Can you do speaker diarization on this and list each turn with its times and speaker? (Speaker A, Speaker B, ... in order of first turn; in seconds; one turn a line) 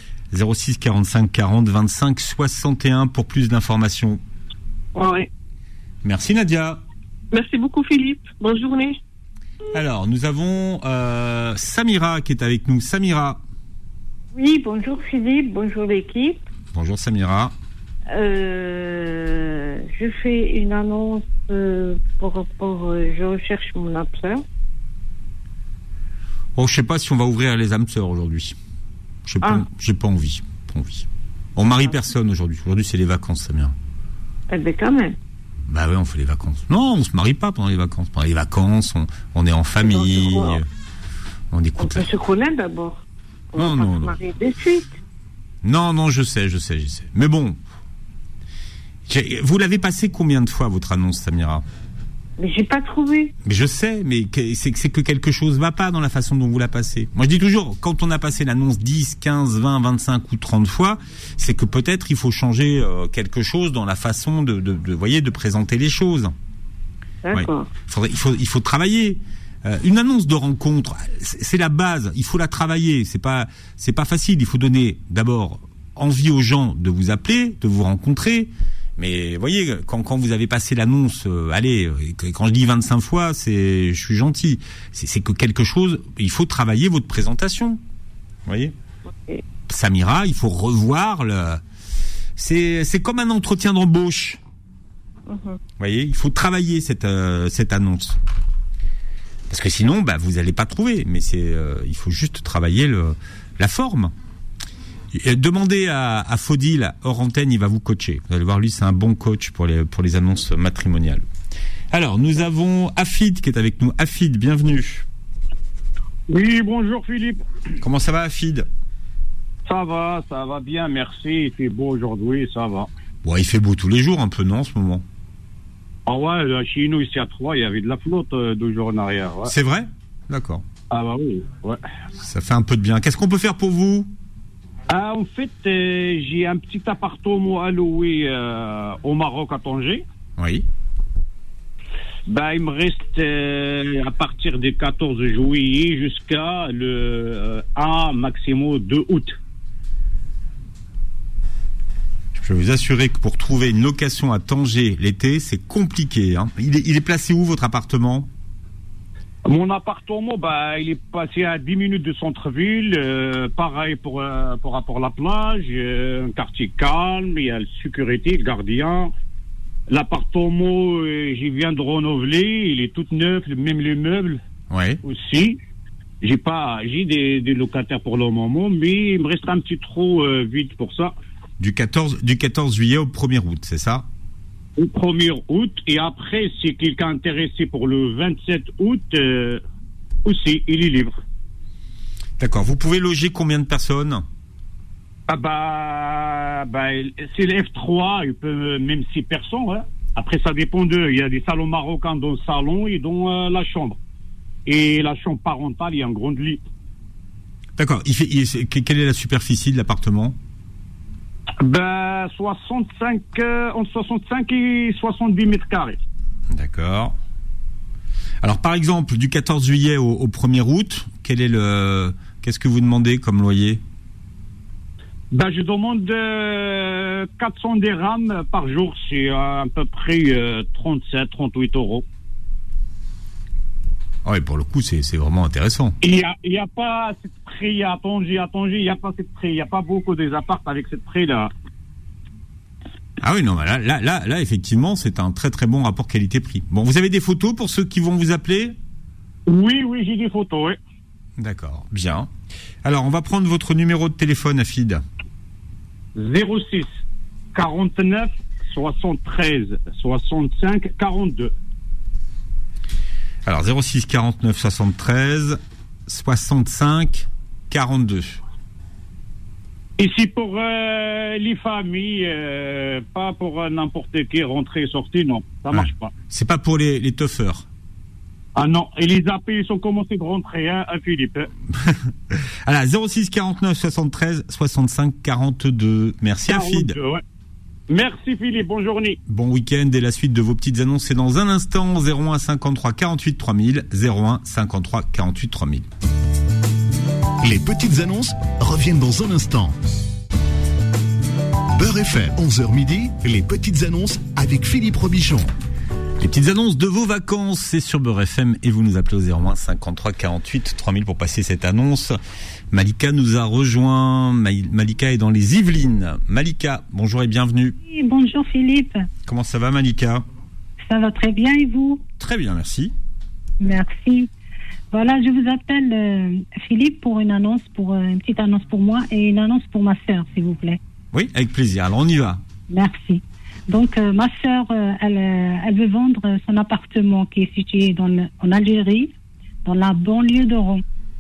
Speaker A: 0.3-4.2
Speaker B: 5.0-5.3
Speaker A: 6.0-6.8
Speaker B: 7.3-9.0
Speaker A: 9.7-13.4
Speaker C: 14.3-16.4
Speaker A: 16.7-17.5
Speaker C: 18.1-24.4
Speaker A: 26.6-28.6
Speaker A: 29.3-33.7
Speaker C: 34.5-35.2
Speaker A: 35.7-40.6
Speaker C: 39.8-40.6
Speaker A: 41.5-42.1
Speaker C: 41.8-43.0
Speaker C: 43.5-45.0
Speaker A: 43.6-44.2
Speaker A: 45.6-47.6
Speaker A: 49.1-51.6
Speaker C: 52.4-53.3
Speaker A: 53.4-66.3
Speaker C: 67.2-67.7
Speaker A: 67.3-87.8
Speaker A: 88.5-88.7
Speaker A: 89.7-91.6
Speaker A: 92.4-94.4
Speaker C: 95.3-95.6
Speaker A: 95.8-98.2
Speaker A: 99.5-104.1
Speaker A: 105.1-111.2
Speaker A: 111.9-115.0
Speaker D: 116.3-117.4
Speaker A: 117.8-118.7
Speaker D: 119.7-122.9
Speaker A: 123.2-125.0
Speaker D: 126.1-129.5
Speaker A: 129.5-130.6
Speaker D: 130.9-131.8
Speaker A: 132.2-134.1
Speaker D: 134.9-140.0
Speaker A: 140.4-140.7
Speaker D: 142.3-149.4
Speaker A: 152.3-158.3
Speaker D: 159.4-169.1
Speaker D: 169.9-174.4
Speaker A: 174.7-175.0
Speaker D: 175.0-175.6
Speaker D: 176.2-181.2
Speaker A: 181.6-184.1
Speaker D: 184.8-189.6
Speaker D: 190.2-191.2
Speaker A: 192.4-194.2
Speaker D: 195.3-204.0
Speaker D: 204.7-206.6
Speaker A: 207.8-210.4
Speaker D: 211.6-216.0
Speaker A: 216.5-217.2
Speaker A: 218.4-223.8
Speaker D: 225.3-232.1
Speaker A: 234.2-236.0
Speaker D: 236.0-241.5
Speaker A: 243.2-248.8
Speaker D: 249.5-250.8
Speaker A: 251.4-252.3
Speaker A: 252.8-255.0
Speaker D: 256.2-257.0
Speaker D: 257.5-261.5
Speaker A: 263.5-268.4
Speaker D: 270.0-276.1
Speaker A: 275.7-277.7
Speaker D: 278.6-281.5
Speaker A: 281.8-286.9
Speaker D: 286.5-287.2
Speaker D: 287.9-289.2
Speaker A: 289.3-295.9
Speaker E: 297.4-299.7
Speaker E: 301.7-305.5
Speaker A: 306.2-312.2
Speaker A: 312.7-317.8
Speaker F: 317.8-319.1
Speaker A: 319.3-320.2
Speaker F: 320.8-322.0
Speaker A: 322.2-322.9
Speaker F: 323.6-324.3
Speaker F: 324.9-330.8
Speaker A: 331.1-332.4
Speaker F: 332.7-339.1
Speaker F: 339.6-340.8